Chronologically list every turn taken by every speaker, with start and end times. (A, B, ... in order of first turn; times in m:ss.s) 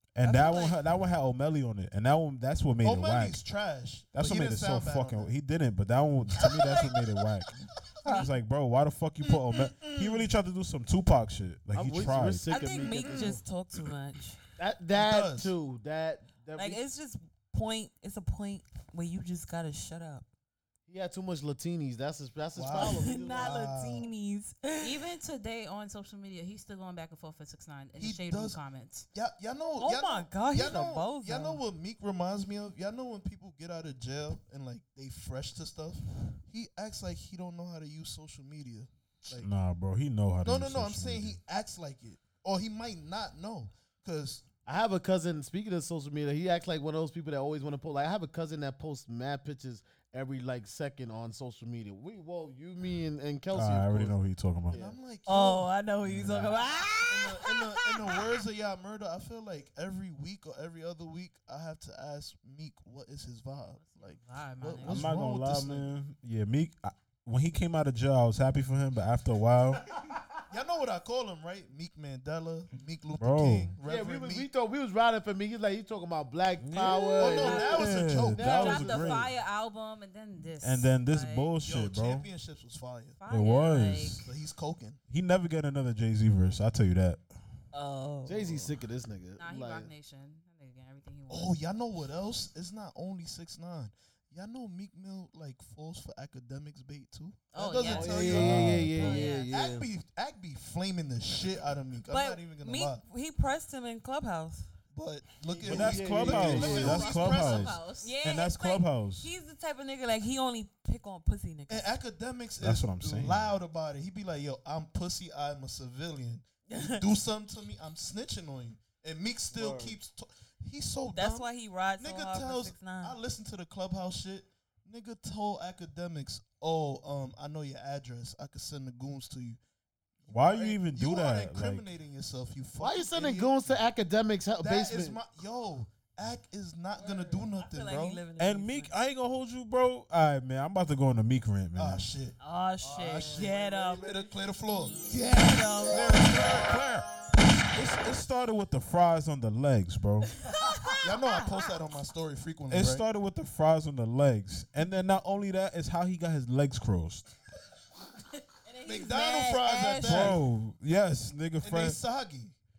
0:00.2-0:03.4 A
0:00.2-0:00.8 B
0:02.8-0:05.3 C
0:04.1-0:12.5 A
0:06.4-0:06.7 C
0:09.2-0:10.2 C
0:11.7-0:13.4 D
0:12.5-0:14.4 E
0:14.6-0:16.8 D
0:14.9-0:15.5 C
0:16.6-0:20.2 E
0:20.9-0:23.6 D
0:22.6-0:24.1 C
0:22.8-0:25.0 E
0:24.8-0:29.1 B
0:28.0-0:28.6 C
0:29.1-0:39.5 C
0:29.8-0:31.6 E
0:39.4-0:41.4 A
0:40.4-0:44.4 C
0:44.7-0:54.2 D
0:53.5-0:54.8 A
0:54.7-0:55.0 D
0:54.7-0:55.7 C
0:55.3-0:58.1 E
0:56.0-0:56.6 A
0:57.1-1:05.9 C
1:03.8-1:05.1 B
1:04.8-1:09.8 A
1:10.5-1:14.5 C
1:13.2-1:13.7 A
1:13.8-1:19.3 D
1:16.6-1:19.3 A
1:17.2-1:18.6 C
1:18.4-1:21.6 B
1:20.6-1:22.2 A
1:21.6-1:23.2 C
1:23.2-1:24.3 B
1:23.3-1:24.3 A
1:24.2-1:25.0 C
1:25.1-1:27.2 A
1:27.7-1:28.7 E
1:28.3-1:29.9 D
1:29.4-1:31.6 B
1:31.3-1:38.7 C
1:37.5-1:38.4 B
1:37.9-1:39.9 D
1:38.3-1:39.2 A
1:39.0-1:39.5 B
1:39.2-1:39.4 E
1:39.5-1:43.0 C
1:42.1-1:44.7 E
1:44.9-1:47.8 C
1:45.5-1:47.3 D
1:45.6-1:49.3 A
1:46.5-1:48.1 B
1:48.0-1:51.9 E
1:51.7-2:09.6 C
1:52.6-1:53.5 A
1:56.7-1:57.0 E
1:59.5-2:00.0 D
2:01.1-2:03.2 E
2:10.2-2:13.8 C
2:10.3-2:11.9 A
2:12.8-2:15.2 D
2:14.6-2:18.2 C
2:17.0-2:18.9 E
2:18.4-2:22.1 A
2:21.8-2:22.4 C
2:22.4-2:24.1 E
2:22.9-2:26.8 C
2:23.5-2:24.1 D
2:25.1-2:26.1 E
2:26.2-2:30.3 A
2:30.5-2:31.5 E
2:31.0-2:33.0 C
2:32.7-2:37.3 A
2:38.6-2:40.3 E
2:38.9-2:40.4 C
2:40.0-2:42.0 A
2:41.6-2:42.6 C